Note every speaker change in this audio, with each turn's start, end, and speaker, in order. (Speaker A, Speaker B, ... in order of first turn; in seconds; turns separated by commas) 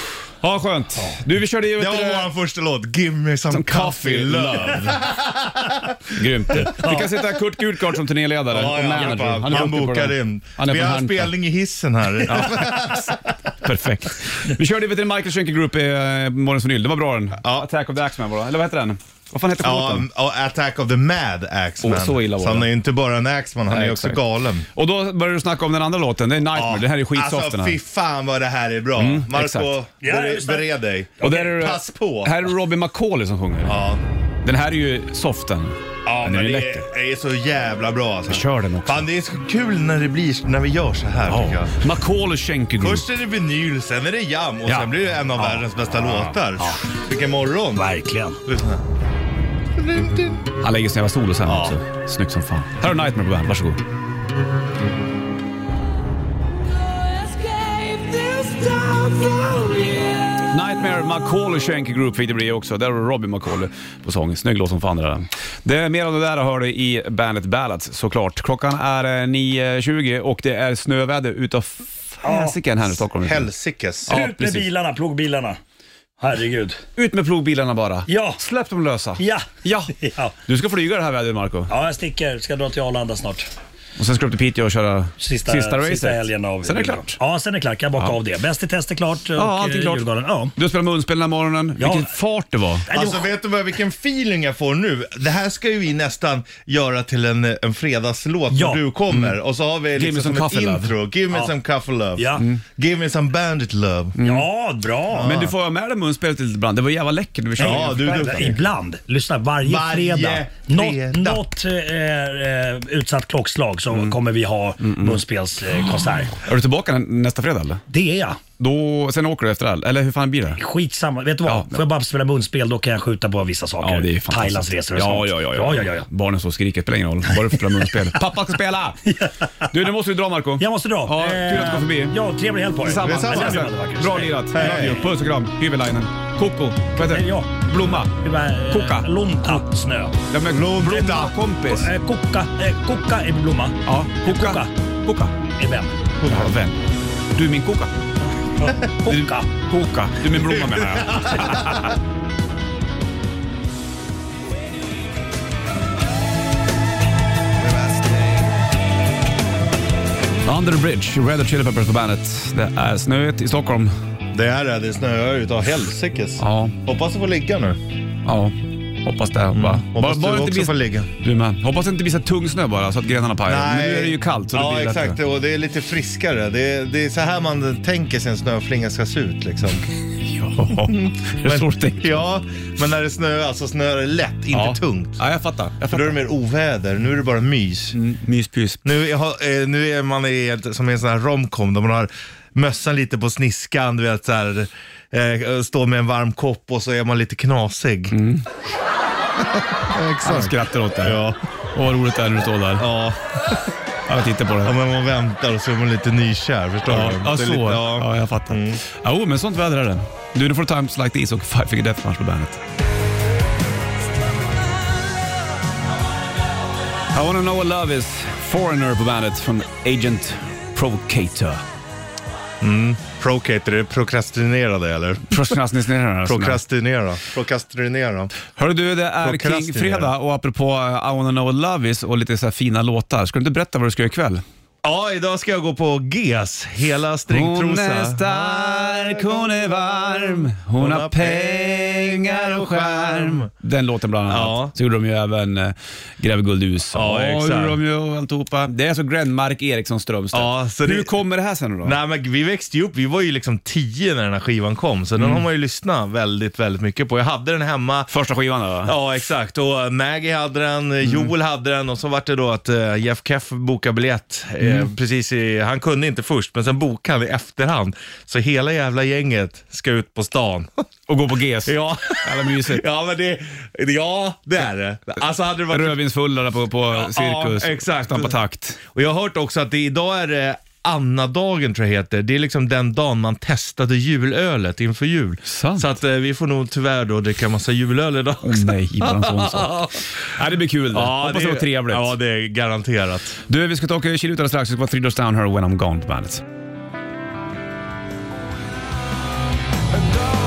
Speaker A: 0.4-2.3, Speaker B: 1.7-7.0, Speaker A: 3.5-5.1, Speaker A: 6.1-11.3, Speaker B: 8.5-13.5, Speaker A: 12.3-13.1, Speaker A: 13.6-20.1, Speaker B: 19.6-24.7, Speaker A: 21.8-22.7, Speaker A: 23.7-24.2, Speaker A: 24.7-27.8, Speaker B: 26.5-32.5, Speaker A: 29.0-29.8, Speaker C: 30.0-31.4, Speaker A: 31.2-33.8, Speaker B: 33.6-34.0, Speaker A: 34.4-36.9, Speaker B: 36.0-41.8, Speaker A: 38.3-39.0, Speaker A: 41.3-43.1, Speaker B: 42.8-47.9, Speaker A: 46.0-46.3, Speaker C: 47.8-48.4, Speaker B: 48.4-48.8, Speaker B: 49.8-50.5, Speaker A: 50.6-53.8, Speaker B: 51.5-51.8, Speaker A: 60.4-73.5, Speaker C: 72.2-72.6, Speaker B: 73.2-74.1, Speaker A: 74.1-74.7, Speaker C: 74.1-75.6, Speaker C: 76.2-76.8, Speaker A: 77.0-81.7, Speaker C: 78.1-78.4, Speaker C: 79.2-80.3, Speaker C: 81.7-83.5, Speaker A: 84.0-87.2, Speaker C: 85.2-90.5, Speaker A: 89.4-92.9, Speaker C: 91.8-92.1, Speaker C: 92.8-93.3, Speaker B: 92.9-104.2, Speaker C: 98.5-98.8, Speaker A: 100.0-101.0, Speaker C: 102.2-102.5, Speaker A: 104.2-104.5, Speaker C: 104.2-105.5, Speaker B: 105.1-105.5, Speaker A: 105.2-108.6, Speaker C: 107.6-116.4, Speaker B: 107.6-108.6, Speaker B: 109.6-111.5, Speaker A: 114.8-115.2, Speaker A: 116.4-117.8, Speaker C: 117.9-118.4, Speaker A: 118.6-120.6, Speaker C: 120.6-126.1, Speaker A: 121.5-121.8, Speaker A: 123.8-132.2, Speaker C: 127.5-127.9, Speaker C: 129.1-129.4, Speaker C: 130.6-135.1, Speaker A: 132.8-139.6, Speaker B: 133.0-133.7, Speaker B: 134.5-135.1, Speaker C: 137.0-140.2, Speaker A: 140.3-141.9, Speaker B: 140.5-141.3, Speaker C: 140.8-144.7, Speaker A: 143.9-145.3, Speaker C: 145.6-146.0, Speaker B: 146.2-146.5, Speaker A: 146.2-148.1, Speaker C: 148.6-149.5, Speaker A: 149.0-152.0, Speaker B: 150.3-152.0, Speaker B: 157.6-158.5, Speaker A: 160.4-163.9, Speaker B: 164.3-167.8, Speaker A: 166.4-166.8, Speaker A: 168.3-175.2, Speaker B: 169.5-171.1, Speaker B: 173.5-179.9, Speaker A: 180.2-182.2, Speaker B: 180.8-185.2, Speaker A: 184.5-186.2, Speaker B: 185.9-188.0, Speaker A: 187.9-188.8, Speaker B: 188.8-198.2, Speaker A: 198.1-198.5, Speaker B: 199.6-201.4, Speaker A: 200.2-202.9, Speaker B: 202.8-203.7, Speaker A: 204.1-204.8, Speaker B: 204.6-208.8, Speaker A: 206.9-212.6, Speaker A: 217.1-221.6, Speaker B: 222.6-225.6, Speaker A: 225.3-226.6, Speaker B: 226.2-228.3, Speaker A: 228.5-234.4, Speaker B: 229.2-230.1, Speaker B: 234.8-243.5, Speaker A: 237.3-252.0, Speaker B: 244.3-244.7, Speaker B: 246.9-247.8, Speaker B: 250.3-251.2, Speaker B: 251.8-258.1, Speaker A: 258.1-258.9, Speaker B: 258.8-270.9, Speaker A: 271.1-272.8, Speaker B: 271.6-276.0, Speaker A: 275.7-278.8, Speaker B: 276.9-290.1, Speaker A: 285.4-285.9, Speaker A: 288.4-292.1, Speaker B: 290.9-293.4, Speaker A: 293.5-296.4